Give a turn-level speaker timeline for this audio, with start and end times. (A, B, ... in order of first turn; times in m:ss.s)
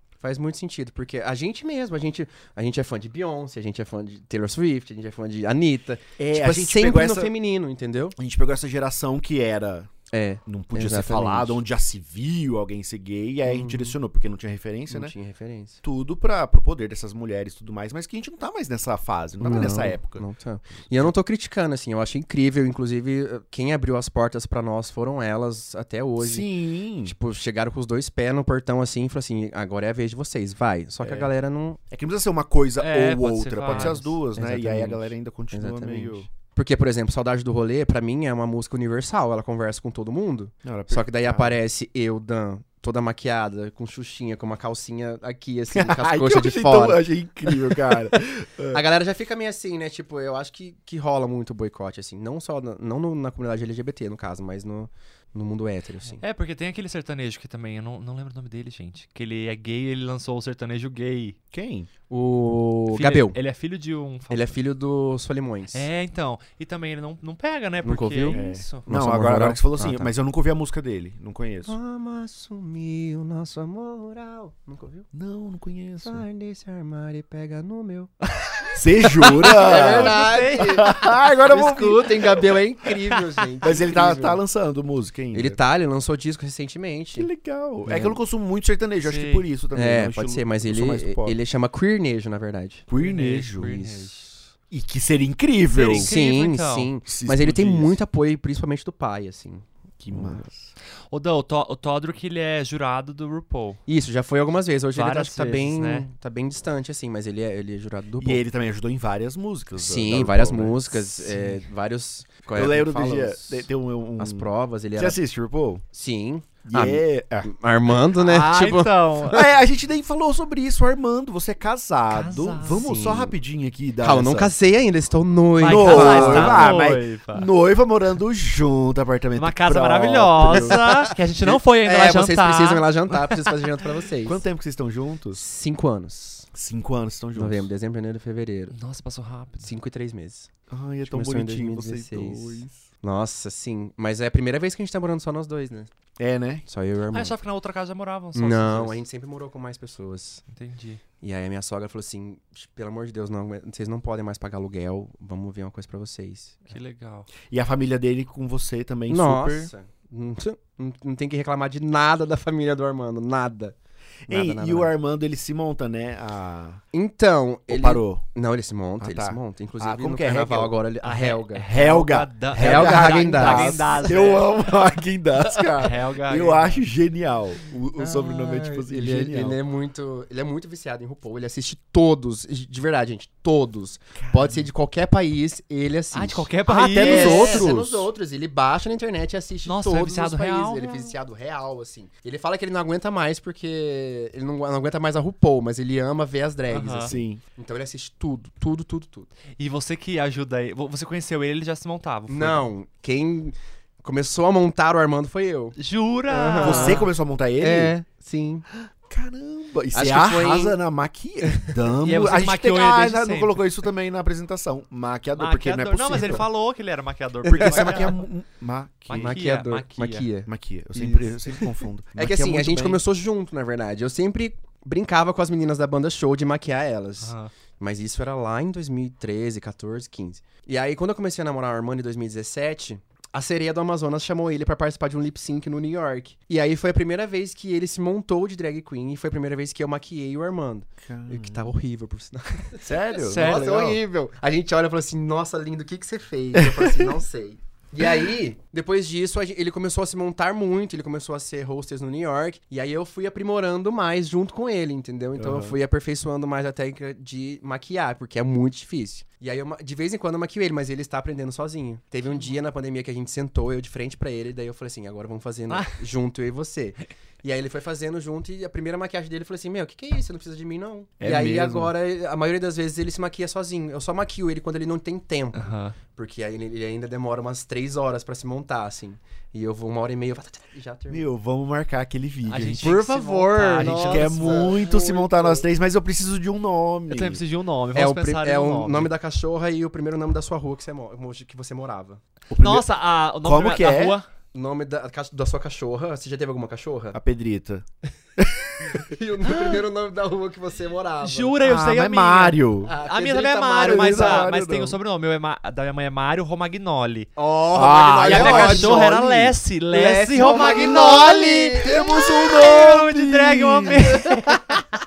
0:00.2-0:08.2 A
0:06.2-0:07.3 B
0:08.2-0:09.9 B
0:10.1-0:11.6 A
0:10.5-0:15.1 B
0:13.4-0:14.0 A
0:14.9-0:15.8 A
0:15.8-0:20.3 B
0:19.4-0:26.5 A
0:26.2-0:27.2 B
0:27.0-0:31.8 A
0:31.0-0:31.3 B
0:31.9-0:36.3 B
0:32.8-0:35.1 C
0:33.7-0:34.0 A
0:35.5-0:48.0 A
0:40.6-0:41.6 B
0:45.7-0:48.8 B
0:48.7-0:56.2 A
0:56.2-1:01.4 C
1:01.5-1:01.9 B
1:02.1-1:03.4 A
1:02.9-1:04.6 C
1:04.3-1:05.9 A
1:05.7-1:08.8 C
1:07.8-1:10.1 A
1:08.3-1:11.8 B
1:11.7-1:15.1 A
1:15.1-1:16.2 B
1:16.0-1:18.1 A
1:18.4-1:21.1 C
1:18.7-1:22.4 B
1:19.2-1:24.4 A
1:23.1-1:23.5 C
1:23.6-1:25.6 B
1:25.3-1:27.3 A
1:27.2-1:31.4 B
1:27.8-1:28.2 A
1:29.0-1:29.5 C
1:29.7-1:32.9 A
1:32.9-1:33.8 B
1:33.0-1:34.3 C
1:33.6-1:34.3 A
1:34.7-1:36.1 B
1:35.7-1:36.9 C
1:35.9-1:39.6 A
1:37.1-1:38.0 B
1:40.0-1:40.7 B
1:41.1-1:43.8 C
1:43.9-1:48.4 A
1:44.9-1:46.1 C
1:48.2-1:51.3 B
1:49.8-1:55.2 A
1:52.6-1:55.8 B
1:55.9-1:59.5 A
1:56.6-1:57.5 B
1:58.1-1:59.4 C
1:59.3-2:04.5 B
2:02.1-2:02.9 C
2:02.7-2:03.4 A
2:04.0-2:06.7 A
2:05.6-2:07.5 C
2:05.6-2:11.0 B
2:09.4-2:12.9 C
2:10.4-2:14.4 A
2:14.2-2:15.4 B
2:15.3-2:16.5 A
2:16.5-2:17.7 B
2:17.4-2:18.8 A
2:18.7-2:19.7 C
2:19.6-2:20.5 A
2:20.7-2:22.8 B
2:21.0-2:25.9 A
2:26.2-2:26.6 B
2:26.7-2:27.4 A
2:27.1-2:29.0 C
2:28.4-2:30.4 A
2:30.5-2:31.0 C
2:31.2-2:36.7 A
2:36.7-2:37.3 C
2:37.5-2:39.7 B
2:39.1-2:43.8 A
2:44.3-2:44.9 A
2:44.3-2:46.8 B
2:46.9-2:51.8 A
2:47.7-2:48.2 B
2:49.0-2:50.8 B
2:51.0-2:54.5 C
2:51.6-2:59.6 B
2:52.5-2:54.3 A
2:55.8-2:56.8 C
2:58.0-3:19.3 A
3:04.2-3:04.7 B
3:06.1-3:07.7 C
3:06.7-3:08.1 B
3:09.6-3:11.1 C
3:16.7-3:17.1 C
3:17.0-3:17.4 B
3:19.6-3:22.6 C
3:22.3-3:25.8 A
3:25.8-3:27.1 C
3:26.3-3:27.1 A
3:26.6-3:27.9 B
3:27.6-3:28.6 A
3:28.8-3:36.4 B
3:29.9-3:30.8 A
3:31.4-3:31.7 A
3:32.0-3:33.6 C
3:35.4-3:38.2 C
3:36.2-3:36.4 A
3:37.4-3:39.4 B
3:37.6-3:38.0 A
3:39.1-3:40.3 C
3:39.1-4:41.3 A
3:40.5-3:43.0 B
3:47.2-3:47.5 C
4:01.0-4:01.7 B
4:02.8-4:04.0 B
4:03.2-4:04.0 C
4:06.6-4:07.1 B
4:15.4-4:15.8 B
4:25.7-4:26.0 C
4:31.2-4:31.9 B
4:35.5-4:36.0 C
4:41.1-4:43.0 B
4:42.5-4:44.8 C
4:42.8-4:45.7 A
4:43.8-4:47.4 B
4:47.1-4:49.1 C
4:47.9-4:52.2 A
4:52.5-4:52.9 B
4:52.6-4:54.3 C
4:53.4-4:54.2 B
4:54.5-4:57.2 A
4:57.1-4:57.9 B
4:58.4-4:59.0 B
4:58.9-5:01.6 A
5:01.2-5:07.3 C
5:01.6-5:02.9 B
5:02.9-5:04.5 A
5:03.8-5:05.0 B
5:07.4-5:12.3 A
5:07.7-5:09.5 B
5:08.2-5:14.8 C
5:11.7-5:14.6 B